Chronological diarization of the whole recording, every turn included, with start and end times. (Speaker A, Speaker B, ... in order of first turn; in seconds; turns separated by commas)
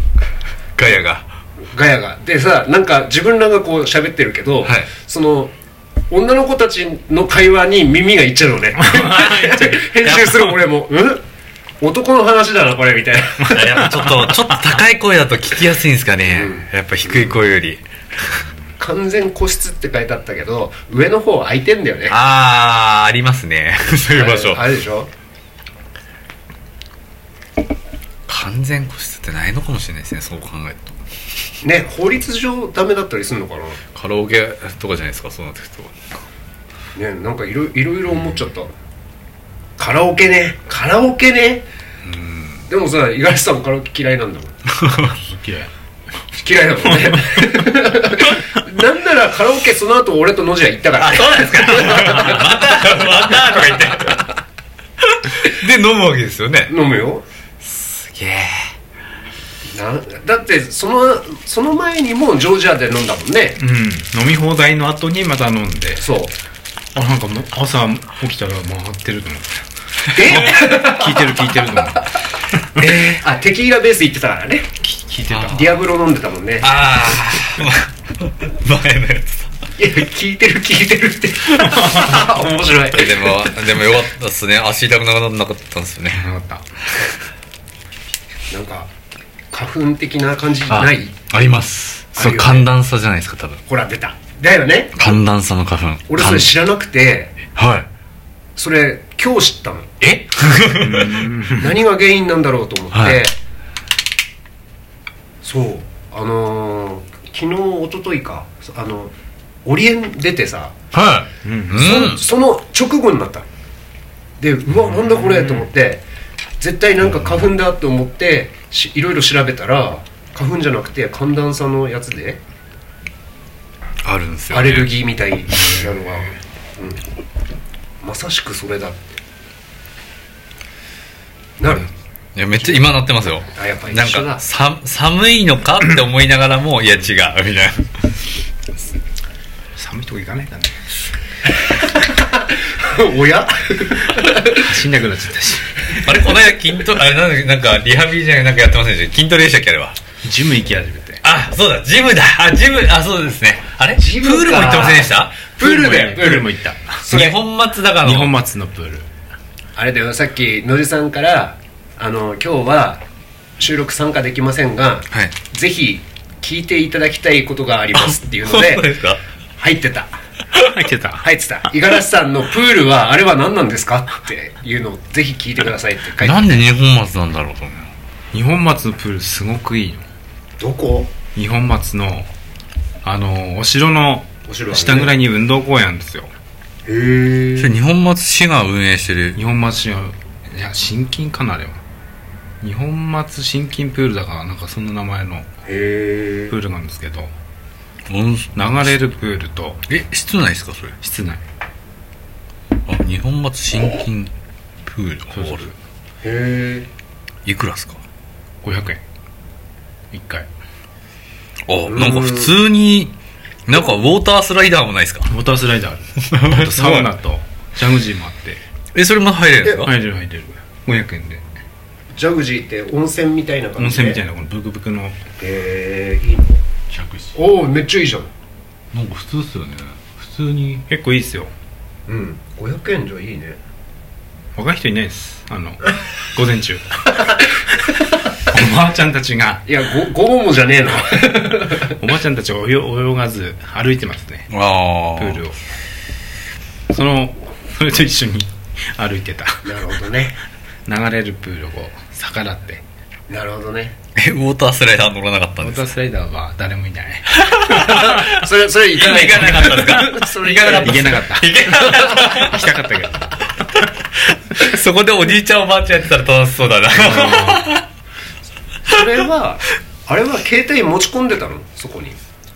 Speaker A: 0.8-1.2, Speaker B: 1.7-5.5, Speaker B: 6.1-11.2, Speaker C: 8.8-9.7, Speaker A: 10.0-10.5, Speaker B: 11.8-13.6, Speaker A: 13.5-18.4, Speaker B: 16.2-17.4, Speaker B: 18.8-22.2, Speaker A: 22.1-24.6, Speaker B: 24.1-25.1, Speaker A: 28.3-31.0, Speaker B: 31.6-33.8, Speaker A: 33.9-36.2, Speaker B: 36.9-38.7, Speaker B: 39.8-41.7, Speaker C: 42.0-42.6, Speaker B: 42.7-44.5, Speaker A: 44.8-45.1, Speaker C: 45.1-45.7, Speaker B: 46.3-54.1, Speaker A: 51.0-54.3, Speaker A: 55.2-56.7, Speaker B: 56.7-57.2, Speaker A: 57.6-58.7, Speaker B: 59.7-63.6, Speaker C: 63.6-66.0, Speaker B: 66.0-66.3, Speaker C: 66.9-69.6, Speaker B: 70.1-71.7, Speaker C: 70.2-72.0, Speaker A: 72.8-73.2, Speaker B: 73.0-74.7, Speaker C: 74.8-75.7, Speaker A: 75.3-75.7, Speaker B: 75.5-76.7, Speaker A: 76.6-79.5, Speaker B: 79.8-83.5, Speaker C: 81.8-82.2, Speaker A: 82.9-86.3, Speaker C: 86.1-86.7, Speaker B: 88.5-88.9, Speaker B: 89.5-91.2, Speaker A: 90.7-93.6, Speaker B: 92.1-92.7, Speaker B: 93.7-95.0, Speaker A: 95.0-96.5, Speaker B: 96.1-97.3, Speaker A: 97.5-97.9, Speaker B: 98.5-99.9, Speaker A: 100.0-101.3, Speaker C: 100.8-101.8, Speaker B: 101.5-103.3, Speaker A: 102.9-103.2, Speaker B: 105.4-109.1, Speaker B: 109.6-110.8, Speaker A: 110.9-112.2, Speaker C: 111.4-111.9, Speaker B: 111.7-113.5, Speaker B: 114.4-116.0, Speaker B: 116.6-122.4, Speaker C: 117.1-117.4, Speaker A: 124.0-124.9, Speaker B: 124.5-127.0, Speaker C: 125.6-125.9, Speaker B: 128.0-129.2, Speaker B: 131.6-131.9, Speaker A: 132.3-137.8, Speaker B: 132.6-132.9, Speaker B: 133.5-134.4, Speaker C: 139.8-140.9, Speaker B: 141.6-144.7, Speaker C: 144.6-146.1, Speaker A: 146.0-150.0, Speaker C: 150.2-151.2, Speaker A: 151.2-155.5, Speaker B: 154.0-157.4, Speaker C: 155.6-157.1, Speaker A: 157.1-158.3, Speaker C: 158.0-159.1, Speaker B: 159.8-163.0, Speaker B: 163.6-168.8, Speaker A: 168.0-169.2, Speaker B: 169.6-170.2, Speaker C: 170.6-171.2, Speaker B: 171.2-176.6, Speaker A: 176.2-177.9, Speaker C: 178.3-180.0, Speaker B: 180.6-181.1, Speaker C: 181.3-182.3, Speaker C: 183.0-186.3, Speaker B: 184.5-185.2, Speaker B: 186.8-187.8, Speaker A: 187.6-189.4, Speaker C: 189.3-191.8, Speaker C: 192.6-195.5, Speaker B: 195.7-196.6, Speaker C: 196.5-197.3, Speaker A: 198.1-198.9, Speaker C: 198.6-199.8, Speaker A: 199.9-200.9, Speaker C: 201.0-201.4, Speaker A: 202.9-204.3, Speaker A: 204.8-205.7, Speaker C: 205.3-205.8, Speaker B: 206.2-206.9, Speaker A: 207.4-208.0, Speaker C: 208.6-209.0, Speaker C: 210.1-210.5, Speaker A: 211.7-213.1, Speaker B: 211.8-212.6, Speaker A: 213.7-215.3, Speaker C: 215.2-218.6, Speaker A: 216.3-217.1, Speaker A: 218.9-219.9, Speaker C: 219.8-221.4, Speaker B: 222.1-224.2, Speaker C: 223.8-225.2, Speaker B: 225.4-226.6, Speaker A: 226.9-227.4, Speaker B: 227.3-228.3, Speaker A: 228.9-230.8, Speaker C: 230.9-231.5, Speaker B: 232.1-233.6, Speaker C: 234.6-235.8, Speaker C: 236.3-236.8, Speaker C: 238.5-239.6, Speaker B: 239.7-241.9, Speaker C: 241.8-244.5, Speaker A: 244.5-245.4, Speaker C: 245.2-245.6, Speaker C: 246.9-249.8, Speaker B: 249.6-250.3, Speaker C: 250.8-252.8, Speaker B: 253.3-253.9, Speaker A: 254.2-255.8, Speaker C: 255.6-258.0, Speaker A: 257.3-262.7, Speaker B: 257.7-262.3, Speaker C: 260.8-261.5, Speaker C: 262.0-263.5, Speaker A: 263.7-267.8, Speaker C: 266.9-267.7, Speaker B: 268.8-272.2